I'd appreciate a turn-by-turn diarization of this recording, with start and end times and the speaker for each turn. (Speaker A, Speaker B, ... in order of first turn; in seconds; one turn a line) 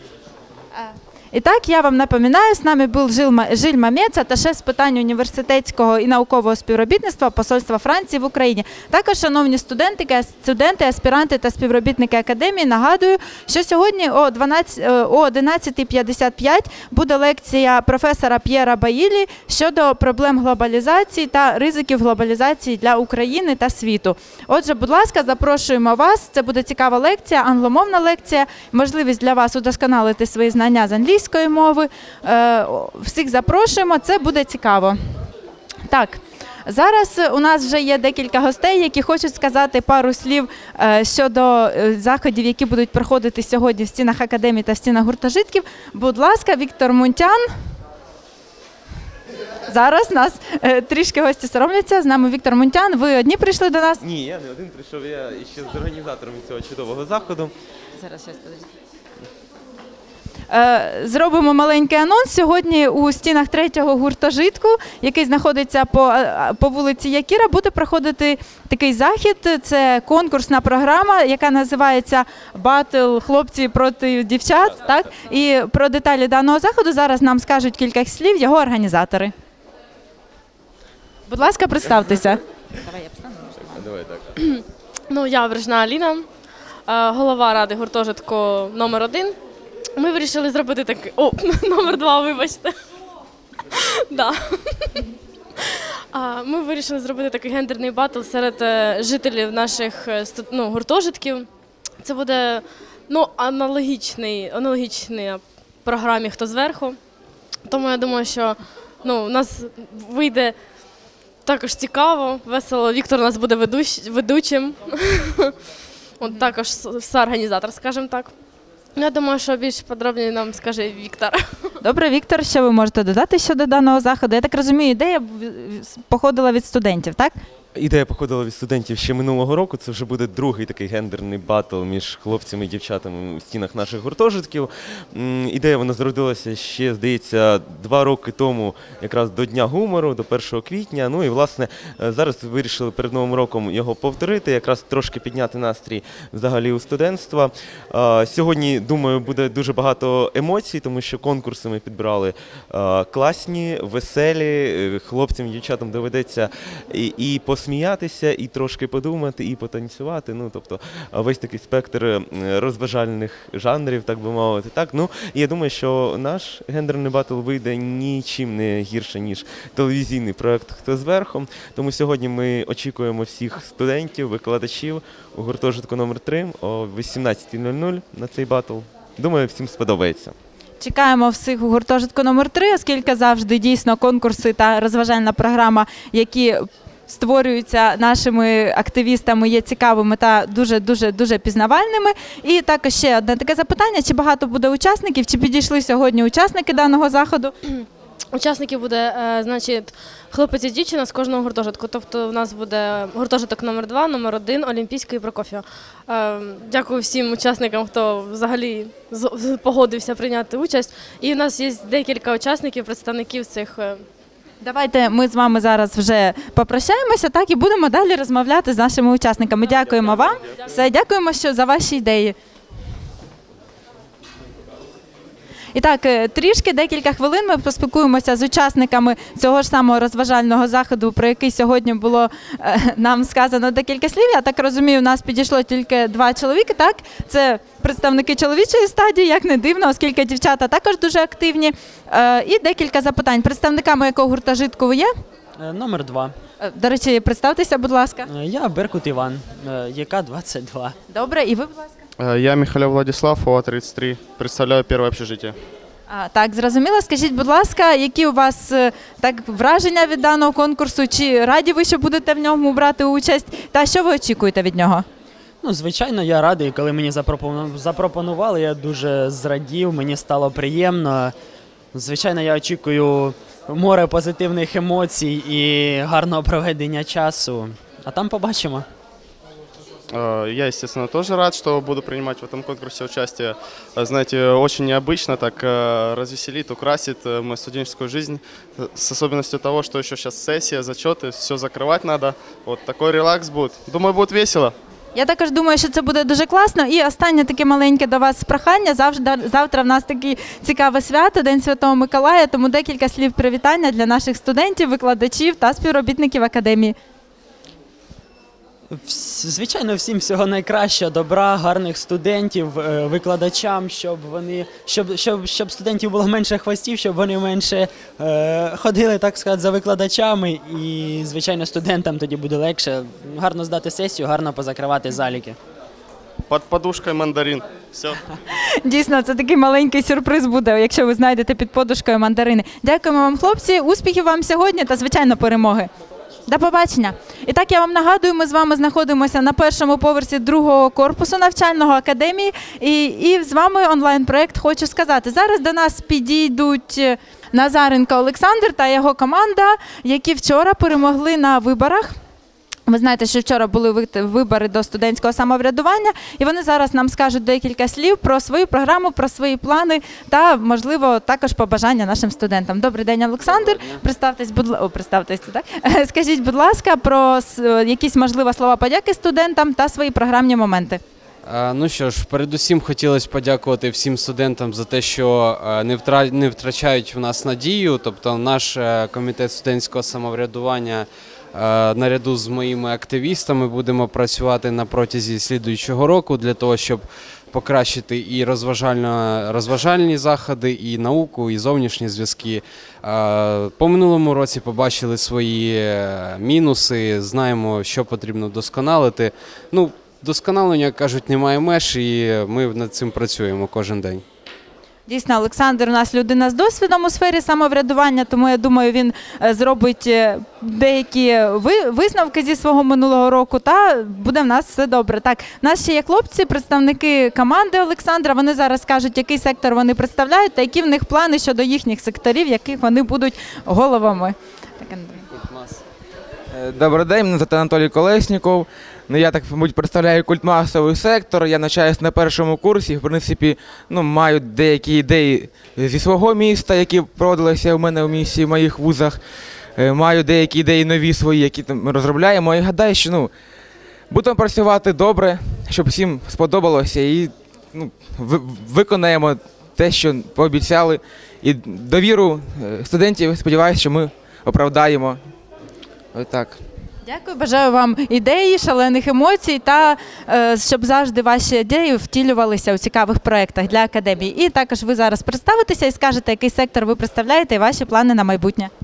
Speaker A: 0.7-35.0
Speaker A: 35.9-47.4
Speaker A: 49.7-54.0
Speaker B: 54.0-57.5
Speaker A: 58.0-58.6
Speaker A: 60.5-79.3
Speaker A: 81.3-83.8
Speaker B: 83.8-84.2
Speaker C: 84.4-86.3
Speaker C: 86.9-89.3
Speaker C: 90.0-92.7
Speaker C: 93.7-95.0
Speaker C: 96.1-101.5
Speaker C: 102.0-107.0
Speaker C: 107.7-110.5
Speaker C: 111.4-115.5
Speaker C: 116.2-118.3
Speaker C: 119.0-121.6
Speaker A: 121.8-127.3
Speaker B: 127.7-180.3
Speaker A: 180.8-197.5
Speaker C: 198.3-214.0
Speaker A: 214.6-222.3
Speaker A: 225.7-245.1
Speaker D: 245.6-246.3
Speaker A: 246.6-248.3
Speaker D: 248.3-250.9
Speaker A: 251.1-252.0
Speaker E: 252.2-255.5
Speaker A: 256.1-265.0
Speaker D: 265.6-271.3
Speaker D: 271.9-278.9
Speaker E: 280.1-294.7
Speaker A: 295.1-306.9
Speaker D: 308.9-325.6
Speaker E: 326.5-328.2
Speaker A: 328.5-335.9
Speaker A: 336.5-352.1
Speaker A: 352.9-371.0
Speaker F: 371.4-404.2
Speaker A: 405.1-425.3
Speaker G: 426.5-439.2
Speaker G: 439.8-443.3
Speaker G: 444.1-455.2
Speaker G: 456.1-456.6
Speaker A: 457.0-468.7